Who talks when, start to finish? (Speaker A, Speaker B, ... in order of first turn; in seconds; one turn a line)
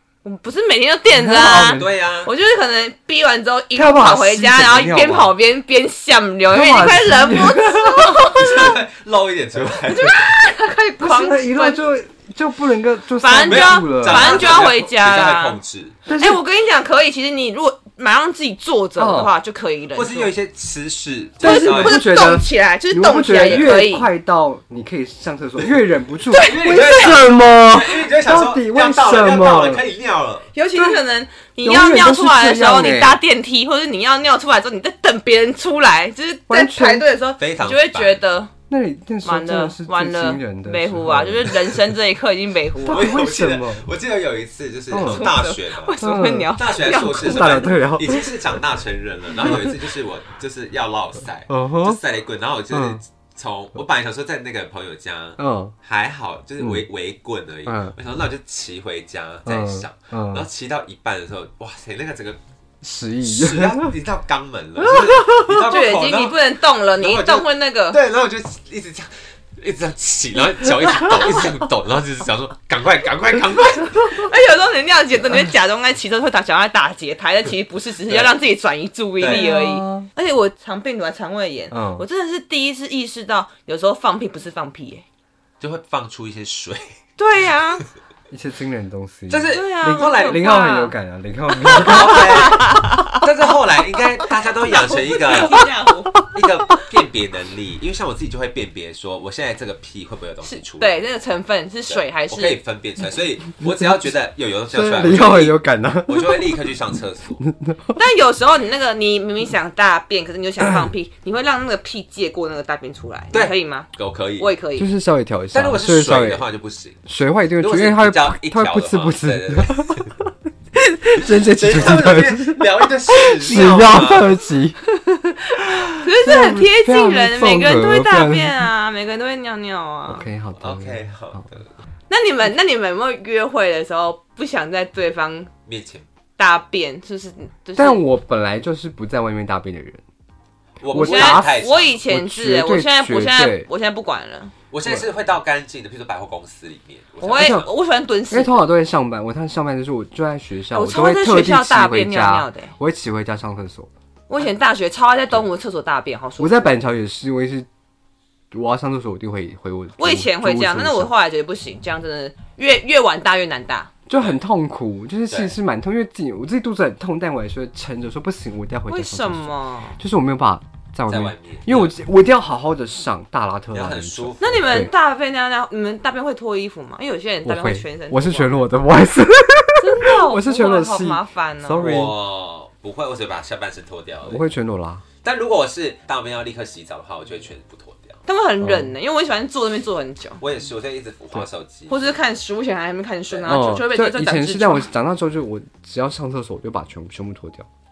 Speaker A: 0.2-8.8
Speaker B: 1.1-1.9
Speaker C: 1.7-2.3
Speaker B: 3.8-5.3
Speaker B: 6.5-8.7
Speaker C: 8.3-10.2
Speaker A: 9.9-11.8
Speaker B: 11.0-14.7
Speaker A: 13.2-15.6
Speaker C: 13.4-16.0
Speaker B: 16.1-16.4
Speaker A: 16.1-20.3
Speaker B: 19.0-19.3
Speaker C: 19.9-22.0
Speaker B: 21.4-29.9
Speaker A: 21.4-24.1
Speaker C: 23.4-23.8
Speaker A: 26.3-27.2
Speaker C: 26.3-30.5
Speaker A: 30.5-38.5
Speaker B: 30.8-31.0
Speaker B: 31.6-33.2
Speaker B: 36.5-37.1
Speaker C: 37.4-38.2
Speaker B: 38.7-41.7
Speaker A: 39.2-43.1
Speaker B: 42.8-43.9
Speaker C: 42.9-46.0
Speaker B: 44.9-45.4
Speaker A: 44.9-47.9
Speaker B: 46.0-48.3
Speaker C: 46.6-62.4
Speaker B: 49.4-49.7
Speaker B: 51.5-52.0
Speaker B: 52.7-53.0
Speaker B: 55.4-55.7
Speaker B: 57.7-58.0
Speaker B: 59.5-60.5
Speaker B: 62.8-63.9
Speaker C: 63.2-66.4
Speaker B: 64.8-65.7
Speaker A: 65.5-68.0
Speaker C: 67.0-74.3
Speaker A: 74.1-85.0
Speaker C: 78.1-78.4
Speaker C: 79.2-79.5
Speaker B: 79.3-80.1
Speaker B: 81.7-82.0
Speaker C: 85.6-87.0
Speaker A: 87.2-87.8
Speaker B: 88.3-92.5
Speaker C: 89.3-90.4
Speaker A: 89.5-91.0
Speaker A: 91.6-93.2
Speaker C: 91.7-95.7
Speaker A: 94.7-96.2
Speaker B: 96.1-96.5
Speaker C: 96.2-100.9
Speaker A: 100.4-102.6
Speaker C: 101.9-105.6
Speaker B: 104.7-106.7
Speaker C: 106.1-107.4
Speaker B: 107.4-108.0
Speaker A: 108.0-113.9
Speaker C: 113.3-114.5
Speaker A: 114.4-114.9
Speaker B: 114.8-116.5
Speaker C: 115.5-117.0
Speaker B: 117.1-124.8
Speaker C: 117.6-120.2
Speaker C: 121.2-124.3
Speaker B: 125.6-128.7
Speaker A: 125.6-130.3
Speaker B: 130.1-131.5
Speaker C: 130.6-131.7
Speaker A: 132.1-135.5
Speaker C: 135.7-136.1
Speaker A: 136.4-138.0
Speaker B: 137.8-140.0
Speaker C: 140.8-142.0
Speaker B: 140.9-143.7
Speaker A: 140.9-144.5
Speaker C: 144.7-147.7
Speaker A: 147.2-148.7
Speaker B: 148.3-153.9
Speaker A: 150.7-152.7
Speaker A: 154.3-156.8
Speaker B: 156.4-157.7
Speaker B: 158.5-161.1
Speaker A: 160.0-163.9
Speaker B: 164.1-174.9
Speaker C: 165.3-165.6
Speaker A: 168.9-170.0
Speaker C: 171.1-172.0
Speaker C: 173.7-174.9
Speaker A: 174.4-178.6
Speaker B: 177.4-182.2
Speaker A: 179.8-182.0
Speaker C: 181.8-184.4
Speaker B: 184.3-185.1
Speaker C: 185.2-188.2
Speaker A: 188.3-190.4
Speaker B: 188.6-188.9
Speaker C: 190.4-192.2
Speaker A: 191.9-194.9
Speaker C: 193.3-193.7
Speaker B: 193.5-197.7